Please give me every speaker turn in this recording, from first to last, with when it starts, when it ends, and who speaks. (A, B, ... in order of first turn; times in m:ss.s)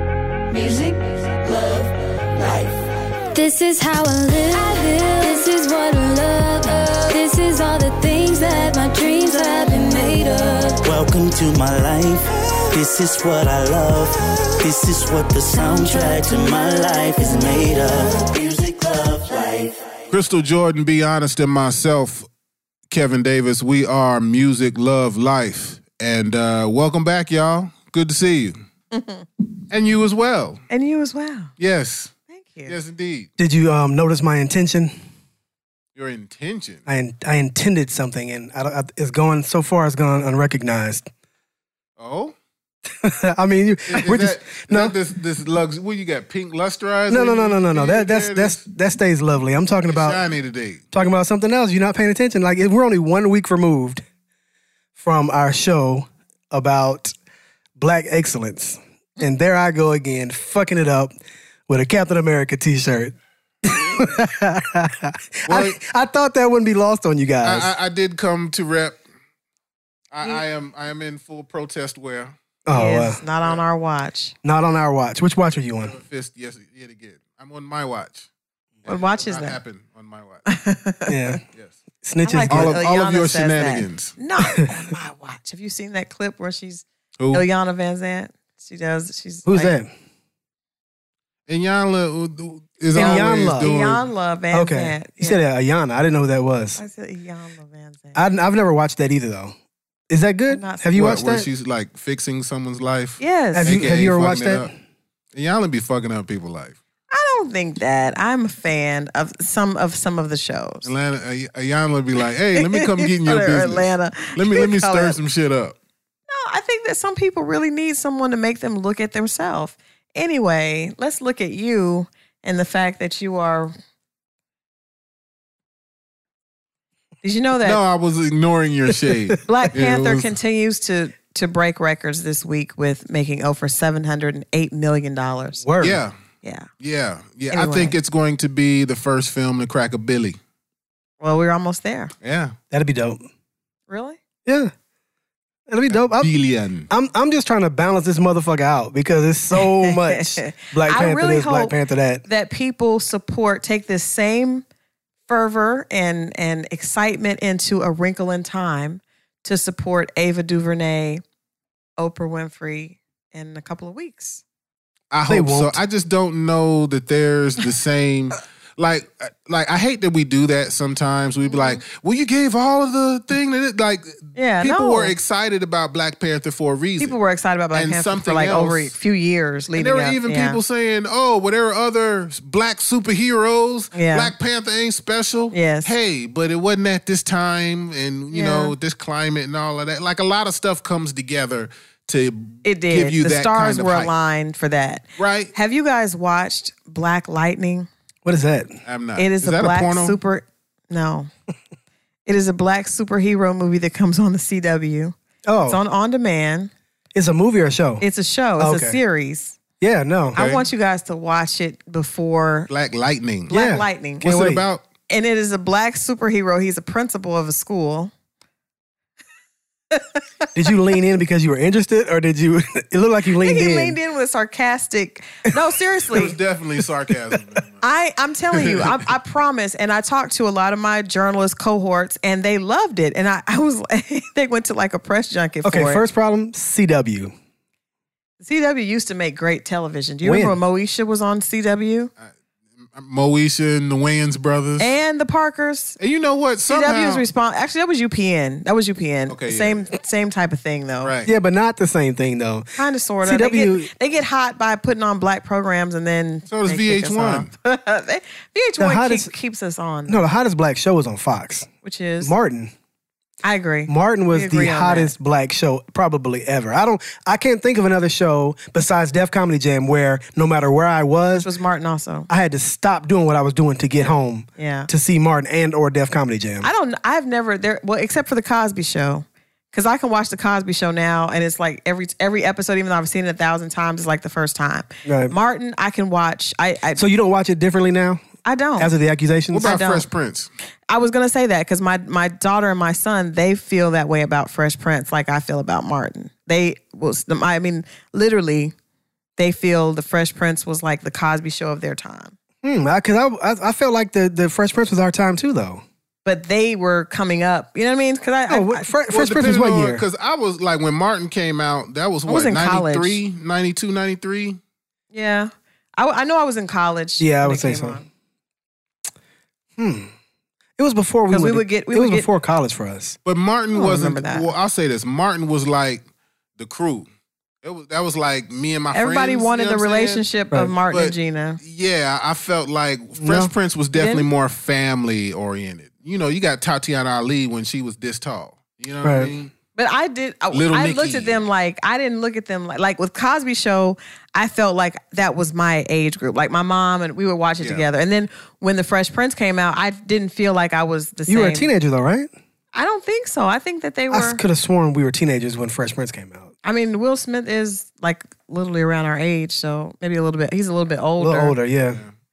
0:00.5-0:02.8 A
0:03.3-0:10.8 A
0:10.8-0:19.8 B
0:15.6-0:16.2 A
0:20.1-0:22.3 C
0:22.9-0:28.5 C
0:28.9-0:29.3 D
0:29.7-0:30.6 C
0:30.7-0:31.5 D
0:31.6-0:32.1 C
0:32.3-0:32.7 D
0:32.7-0:33.3 C
0:33.4-0:34.9 E
0:36.0-0:36.8 C
0:36.9-0:41.1 E
0:42.0-0:42.4 C
0:43.0-0:45.0 E
0:43.9-0:48.6 C
0:47.1-0:50.2 E
0:49.9-0:50.8 C
0:50.9-0:54.0 E
0:55.0-0:57.1 E
0:57.8-1:01.2 E
1:01.7-1:07.7 E
1:05.5-1:05.8 C
1:07.4-1:09.0 C
1:10.1-1:12.3 C
1:12.7-1:13.2 E
1:12.7-1:14.4 D
1:14.4-1:16.0 E
1:15.8-1:18.3 C
1:18.8-1:20.4 C
1:18.9-1:19.6 D
1:20.5-1:21.4 D
1:21.1-1:21.4 E
1:22.0-1:22.8 E
1:22.2-1:29.7 D
1:22.5-1:24.2 C
1:27.2-1:27.4 C
1:29.5-1:29.9 E
1:31.5-1:34.1 C
1:33.0-1:33.7 E
1:33.0-1:35.4 D
1:34.5-1:36.8 E
1:36.8-1:38.2 D
1:38.1-1:39.5 E
1:40.1-1:41.5 E
1:40.5-1:40.9 D
1:40.9-1:44.7 C
1:43.2-1:43.8 D
1:43.5-1:44.7 E
1:45.3-1:46.8 C
1:47.1-1:50.9 D
1:50.8-1:55.8 C
1:52.6-1:55.2 D
1:56.3-2:03.7 D
2:07.2-2:07.8 D
2:07.6-2:10.3 C
2:09.5-2:15.6 D
2:15.6-2:16.0 E
2:15.8-2:16.1 C
2:16.4-2:16.7 D
2:16.8-2:20.4 C
2:17.5-2:18.0 D
2:21.2-2:22.1 D
2:22.2-2:22.6 C
2:22.7-2:23.2 E
2:23.9-2:24.2 D
2:24.5-2:24.7 E
2:25.7-2:26.3 E
2:25.9-2:26.9 C
2:26.9-2:32.2 E
2:29.8-2:34.6 D
2:35.3-2:41.2 D
2:42.0-2:44.4 D
2:45.1-2:57.2 C
2:45.3-2:45.8 E
2:51.5-2:51.8 D
2:54.4-2:55.2 D
2:57.0-3:00.6 D
2:57.7-2:58.9 C
2:59.8-3:14.1 C
3:03.9-3:04.3 D
3:05.5-3:05.9 D
3:08.3-3:08.7 D
3:12.6-3:17.9 D
3:15.2-3:15.5 C
3:18.2-3:18.8 E
3:18.9-3:20.2 C
3:19.2-3:21.3 D
3:22.3-3:25.2 D
3:25.5-3:25.8 E
3:25.7-3:26.7 D
3:27.1-3:28.0 E
3:28.0-3:29.6 D
3:28.6-3:29.0 E
3:29.8-3:30.4 E
3:30.4-3:32.7 D
3:30.4-3:30.6 C
3:32.7-3:33.5 C
3:33.5-3:34.2 D
3:33.5-3:34.6 E
3:34.2-3:34.8 C
3:35.1-3:38.1 D
3:39.9-3:40.2 D
3:40.6-3:44.0 E
3:43.4-3:46.4 D
3:46.1-3:47.8 C
3:47.8-3:56.0 D
3:48.5-3:48.9 C
3:55.6-3:57.3 E
3:58.4-4:02.1 D
4:00.2-4:00.6 E
4:02.9-4:04.9 C
4:04.8-4:06.0 D
4:06.0-4:07.2 C
4:06.7-4:11.1 D
4:09.3-4:09.9 C
4:11.0-4:11.3 C
4:11.3-4:12.7 E
4:12.8-4:20.2 D
4:13.2-4:13.9 E
4:16.5-4:17.5 C
4:18.8-4:19.3 E
4:20.1-4:21.7 E
4:21.8-4:22.3 D
4:22.2-4:22.7 E
4:23.4-4:25.1 D
4:23.9-4:31.5 E
4:31.4-4:32.3 D
4:32.3-4:36.7 E
4:34.6-4:34.9 D
4:36.6-4:47.1 D
4:45.0-4:45.3 E
4:47.0-4:48.2 E
4:48.4-4:48.9 D
4:48.8-4:49.7 E
4:49.5-4:50.5 C
4:49.6-4:50.1 D
4:50.9-4:58.7 D
4:59.4-5:02.3 D
5:02.6-5:05.8 E
5:06.2-5:08.9 D
5:08.5-5:10.0 E
5:09.1-5:14.6 C
5:12.3-5:13.2 D
5:15.1-5:18.1 D
5:17.2-5:18.0 E
5:19.8-5:20.1 E
5:20.8-5:23.2 E
5:21.3-5:22.3 D
5:23.3-5:26.0 C
5:23.7-5:24.5 D
5:26.6-5:27.1 C
5:27.6-5:30.3 C
5:28.9-5:31.6 D
5:30.9-5:39.5 C
5:33.2-5:33.5 E
5:34.0-5:34.3 D
5:39.0-5:39.3 E
5:39.8-5:51.7 D
5:40.5-5:41.4 C
5:51.3-5:52.3 E
5:52.7-5:54.4 D
5:54.1-5:56.5 E
5:56.6-6:01.6 D
6:01.2-6:02.0 E